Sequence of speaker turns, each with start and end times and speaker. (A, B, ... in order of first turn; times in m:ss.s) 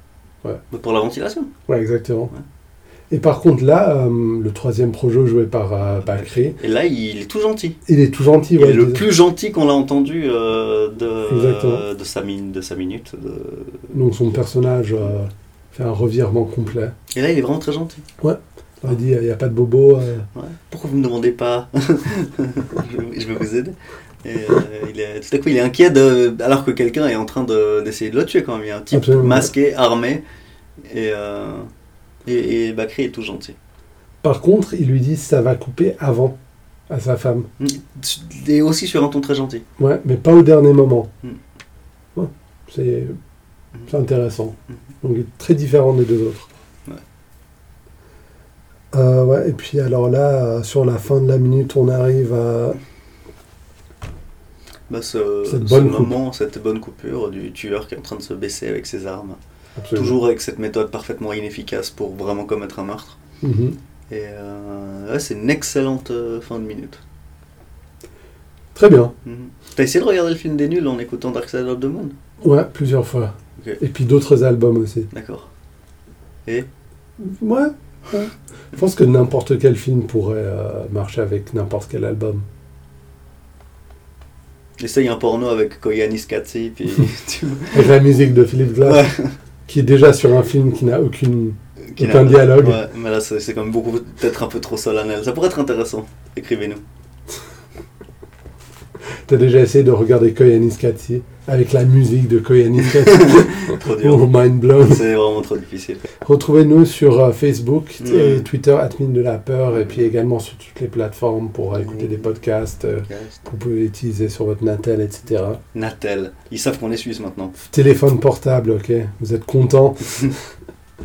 0:00.7-0:01.5 A
0:01.7-0:02.3 B
0:03.1-0:06.6 B
0:06.0-0:07.8 A
0:07.9-0:09.1 B
0:08.6-0:14.0 A
0:11.3-0:11.8 B
0:13.9-0:17.0 B
0:17.1-0:18.0 A
0:18.2-0:20.3 B
0:20.4-0:30.2 A
0:28.9-0:29.5 B
0:30.9-0:31.7 A
0:32.3-0:33.6 A
0:34.2-0:36.4 B
0:36.9-0:37.5 B
0:37.6-0:39.6 A
0:39.8-0:41.1 B
0:42.2-0:43.2 B
0:43.9-0:46.5 B
0:48.9-0:52.8 B
0:54.9-0:59.4 A
0:55.4-0:56.2 B
0:59.8-1:00.2 B
0:59.9-1:03.2 A
1:03.4-1:03.8 B
1:04.1-1:07.0 A
1:08.8-1:09.1 B
1:09.2-1:12.1 A
1:12.4-1:15.1 B
1:15.1-1:15.5 A
1:17.2-1:22.4 B
1:24.8-1:27.9 A
1:27.7-1:29.1 B
1:28.8-1:29.3 A
1:29.7-1:32.8 B
1:31.9-1:36.8 A
1:39.3-1:45.1 B
1:43.0-1:46.1 A
1:46.2-1:55.6 B
1:48.0-1:48.5 A
1:51.7-1:52.4 A
1:53.1-1:53.4 A
1:55.7-1:57.6 A
1:57.7-2:00.3 B